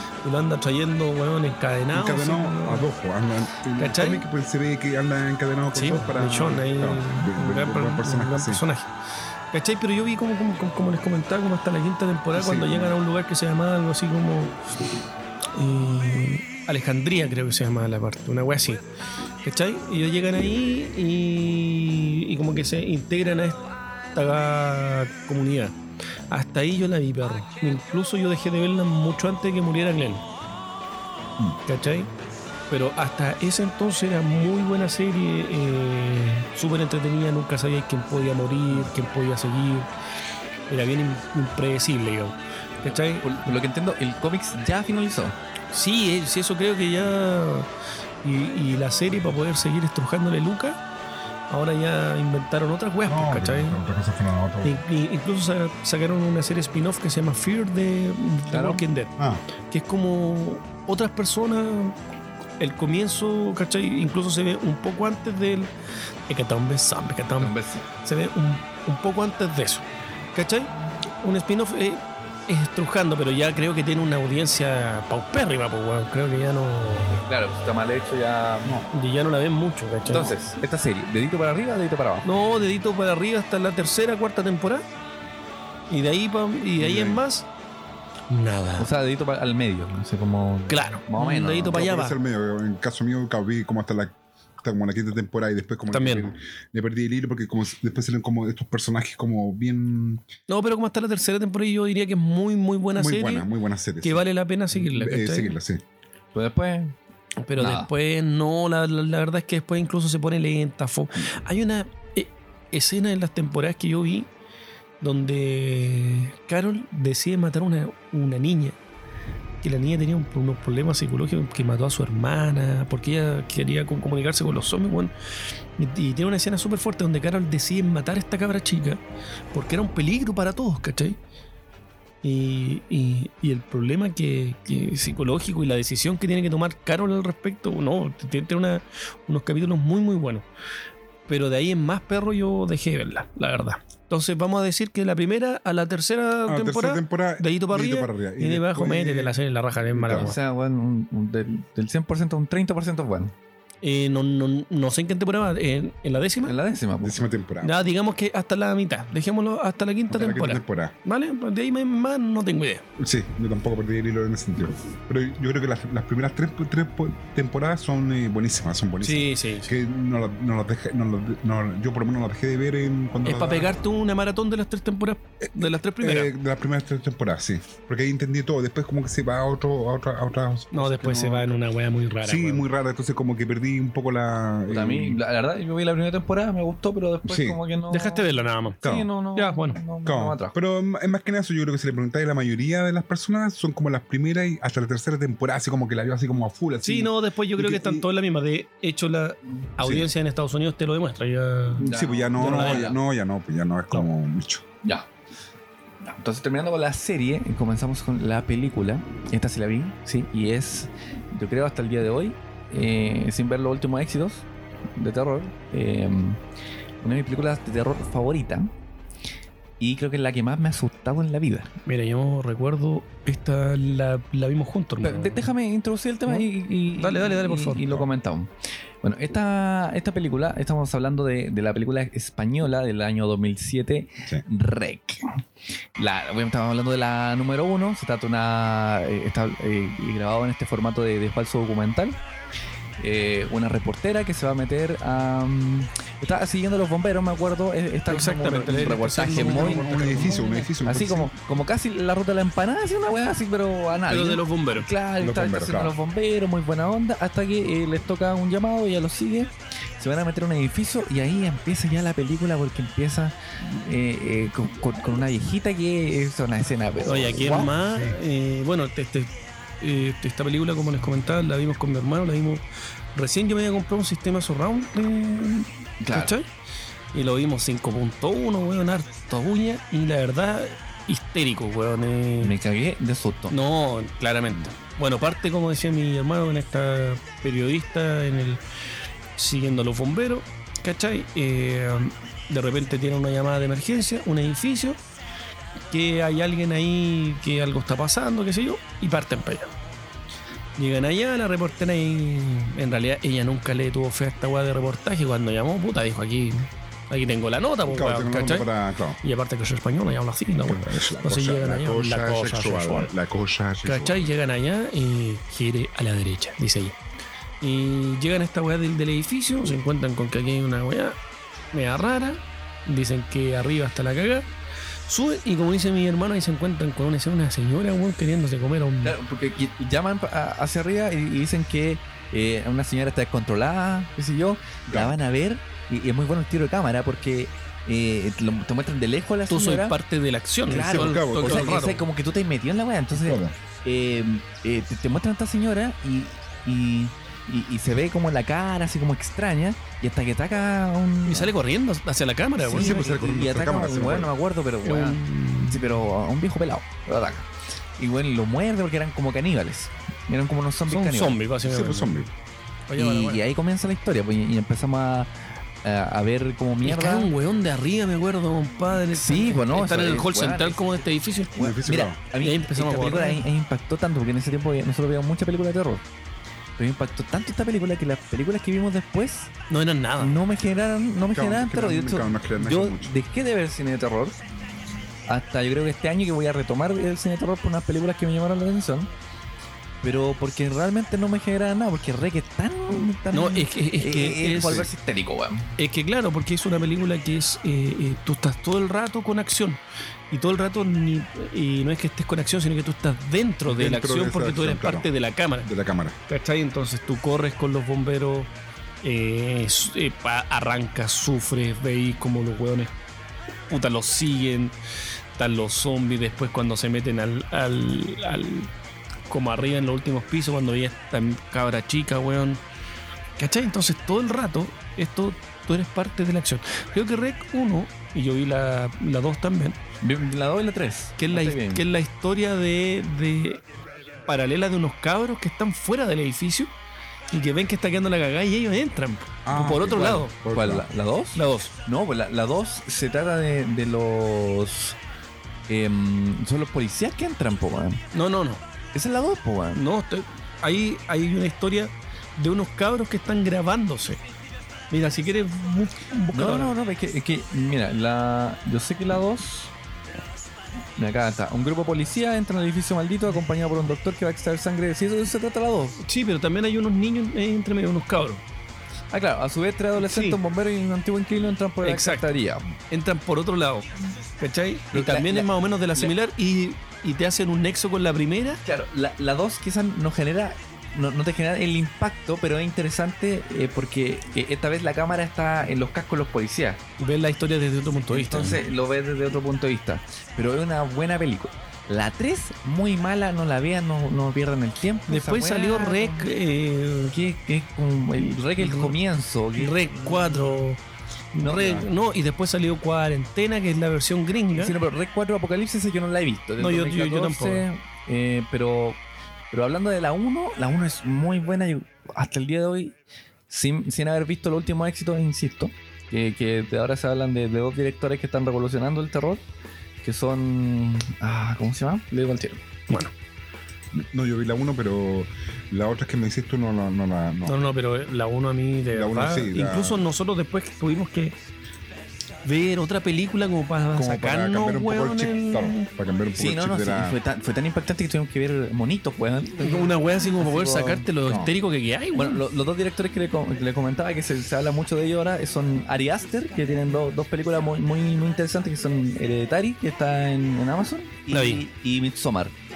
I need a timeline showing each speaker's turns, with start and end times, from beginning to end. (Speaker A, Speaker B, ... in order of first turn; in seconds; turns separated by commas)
Speaker A: 0.2-2.9, Speaker B: 1.9-8.6, Speaker A: 3.8-4.2, Speaker A: 5.7-8.9, Speaker A: 9.5-14.6, Speaker B: 12.3-12.9, Speaker A: 15.5-18.8, Speaker A: 19.4-23.6, Speaker A: 24.1-25.8, Speaker A: 26.3-30.2, Speaker A: 31.6-32.1, Speaker A: 32.7-39.9, Speaker A: 40.7-43.3, Speaker C: 42.9-45.4, Speaker A: 45.7-47.7, Speaker A: 48.2-50.8, Speaker A: 51.5-53.8, Speaker B: 53.0-54.8, Speaker A: 54.6-59.2, Speaker C: 58.5-58.8, Speaker B: 59.2-59.4, Speaker A: 59.7-62.0, Speaker A: 62.6-65.7, Speaker A: 66.3-70.7, Speaker C: 67.4-67.8, Speaker A: 71.2-77.2, Speaker C: 77.2-78.8, Speaker B: 78.6-78.9, Speaker A: 78.9-80.4, Speaker C: 80.1-82.3, Speaker A: 82.2-84.8, Speaker A: 85.9-87.5, Speaker B: 86.8-87.2, Speaker A: 88.3-88.9, Speaker C: 88.8-91.8, Speaker A: 90.7-92.2, Speaker B: 91.7-100.2, Speaker A: 95.9-96.3, Speaker A: 100.5-103.5, Speaker B: 102.9-105.8, Speaker A: 104.0-105.5, Speaker C: 106.3-106.9, Speaker A: 107.4-114.3, Speaker C: 107.5-107.9, Speaker A: 115.0-118.8, Speaker A: 119.6-125.1, Speaker A: 125.8-129.0, Speaker A: 129.5-131.2, Speaker A: 132.2-140.4, Speaker A: 141.3-150.4, Speaker B: 146.5-149.4, Speaker B: 149.9-150.3, Speaker C: 150.1-153.3, Speaker A: 153.8-156.5, Speaker C: 156.4-157.2, Speaker B: 157.0-157.9, Speaker A: 157.6-162.8, Speaker B: 160.1-160.9, Speaker B: 163.0-173.7, Speaker A: 169.0-169.7, Speaker A: 173.2-176.3, Speaker B: 176.0-181.5, Speaker A: 180.7-182.7, Speaker B: 182.2-185.2, Speaker C: 184.7-188.2, Speaker B: 187.2-187.6, Speaker A: 187.9-188.8, Speaker C: 188.8-190.6, Speaker B: 188.8-189.1, Speaker A: 189.3-189.8, Speaker B: 190.0-198.1, Speaker A: 196.8-202.9, Speaker B: 199.8-200.1, Speaker B: 201.8-204.6, Speaker C: 201.8-203.0, Speaker C: 204.8-205.1, Speaker C: 206.0-216.4, Speaker C: 217.0-218.7, Speaker C: 219.8-221.7, Speaker A: 221.8-225.5, Speaker C: 225.0-228.5, Speaker A: 226.3-227.9, Speaker C: 229.0-235.4, Speaker C: 235.9-242.2, Speaker C: 243.0-267.7, Speaker A: 248.1-250.7, Speaker B: 249.2-251.3, Speaker A: 254.1-254.9, Speaker B: 255.2-255.9, Speaker A: 267.0-269.3, Speaker A: 269.8-272.6, Speaker A: 273.1-276.4, Speaker C: 276.0-276.3, Speaker A: 277.1-282.5, Speaker C: 282.4-283.6, Speaker A: 283.5-288.6, Speaker A: 289.4-295.0, Speaker A: 295.9-299.7, Speaker A: 300.8-308.7, Speaker B: 307.9-309.2, Speaker A: 309.2-313.1, Speaker B: 310.6-314.2, Speaker A: 313.8-316.9, Speaker A: 317.6-321.1, Speaker A: 321.7-324.5, Speaker A: 325.1-329.1, Speaker C: 329.0-339.9, Speaker B: 334.9-335.1, Speaker A: 339.5-342.0, Speaker C: 340.7-351.5, Speaker B: 340.7-341.8, Speaker B: 343.1-343.6, Speaker A: 351.2-353.4, Speaker C: 352.6-361.4, Speaker B: 352.7-354.3, Speaker A: 354.8-356.0, Speaker A: 360.9-362.2, Speaker B: 361.6-362.3, Speaker A: 362.9-363.4, Speaker C: 363.0-367.3, Speaker A: 366.8-371.8, Speaker C: 369.1-370.8, Speaker C: 371.5-376.0, Speaker B: 371.6-372.2, Speaker A: 372.4-373.4, Speaker C: 376.8-379.5, Speaker A: 379.7-380.4, Speaker C: 380.2-384.4, Speaker B: 381.3-383.2, Speaker C: 385.3-389.1, Speaker C: 390.0-395.7, Speaker A: 393.3-394.9, Speaker A: 395.8-405.7, Speaker B: 403.7-405.1, Speaker B: 405.6-406.2, Speaker A: 406.3-408.5, Speaker A: 409.0-412.9, Speaker A: 413.7-414.7, Speaker A: 415.4-418.7, Speaker A: 419.3-422.6, Speaker A: 423.4-429.8, Speaker C: 430.0-431.8, Speaker A: 431.2-433.6, Speaker A: 434.3-436.7, Speaker A: 437.3-440.4, Speaker B: 439.4-440.9, Speaker C: 440.5-445.0, Speaker A: 441.3-441.7, Speaker C: 445.7-448.0, Speaker A: 448.1-448.6, Speaker C: 448.9-449.8, Speaker A: 449.7-454.2, Speaker A: 454.9-456.7, Speaker C: 456.3-459.7, Speaker C: 460.9-466.0, Speaker A: 466.0-468.4, Speaker C: 469.1-472.6, Speaker A: 470.0-470.4, Speaker A: 471.8-472.3, Speaker A: 472.9-473.9, Speaker A: 474.4-478.6, Speaker C: 474.9-476.1, Speaker C: 478.6-486.8, Speaker A: 487.0-488.6, Speaker C: 488.1-496.3, Speaker A: 495.1-497.1, Speaker C: 497.1-500.4, Speaker A: 498.6-498.9, Speaker A: 499.6-500.8, Speaker A: 501.3-504.7, Speaker C: 501.4-501.9, Speaker B: 501.6-501.8, Speaker C: 504.6-509.0, Speaker A: 506.6-507.6, Speaker C: 509.5-513.0, Speaker C: 513.5-519.4, Speaker C: 520.0-522.6, Speaker B: 523.9-527.6, Speaker A: 527.4-531.3, Speaker B: 528.9-530.0, Speaker A: 532.4-535.9, Speaker B: 533.9-537.2, Speaker C: 536.3-541.5, Speaker A: 539.6-542.4, Speaker C: 542.1-552.5, Speaker A: 551.3-551.6